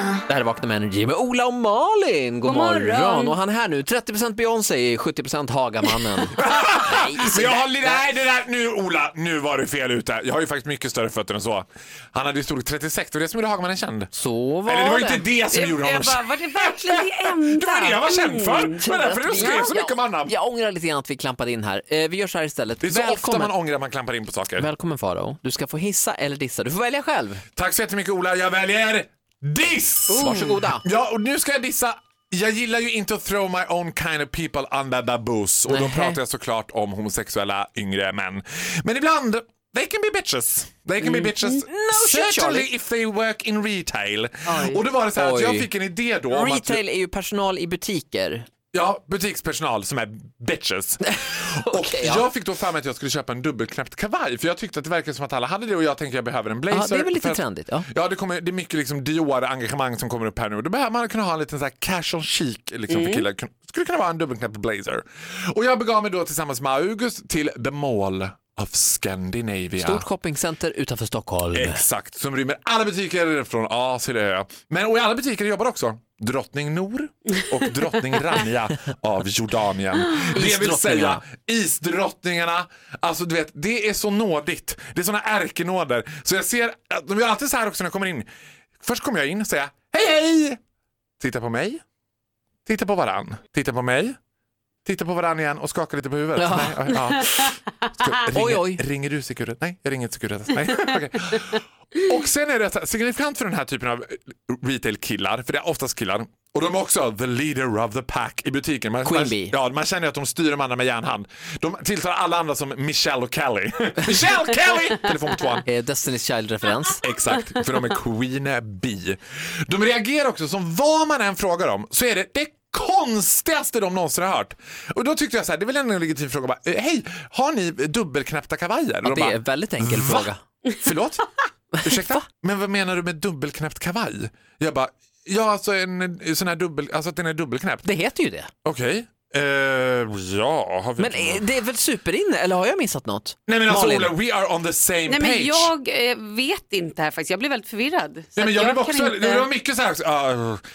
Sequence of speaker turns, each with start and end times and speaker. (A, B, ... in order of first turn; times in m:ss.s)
0:00.3-0:08.1 A
0:02.4-0:03.4 B
0:06.4-0:14.1 C
0:14.1-0:15.2 A
0:14.6-0:20.3 C
0:15.5-0:18.8 B
0:18.8-0:23.5 A
0:22.8-0:24.7 C
0:24.6-0:27.4 A
0:27.6-0:46.8 C
0:30.1-0:30.8 A
0:30.2-0:30.5 B
0:35.7-0:36.2 A
0:41.0-0:42.7 A
0:44.4-0:44.8 B
0:45.2-0:45.7 A
0:46.3-0:48.5 A
0:48.7-1:10.0 C
0:51.1-0:52.2 A
0:56.7-0:57.9 A
1:02.9-1:03.2 B
1:09.8-1:11.8 A
1:11.5-1:28.3 C
1:20.3-1:21.2 A
1:28.8-1:30.6 C
1:31.2-1:31.8 C
1:32.6-1:34.2 C
1:34.8-1:55.6 C
1:36.4-1:37.0 A
1:38.3-1:38.8 A
1:49.0-1:49.5 A
1:55.6-1:57.0 A
1:57.0-2:10.3 C
2:09.0-2:10.4 A
2:10.8-2:11.3 C
2:11.8-2:12.2 A
2:11.8-2:17.8 C
2:17.8-2:18.5 A
2:18.6-2:21.4 C
2:21.0-2:24.2 A
2:23.5-2:25.7 C
2:25.0-2:29.5 B
2:28.3-2:30.6 C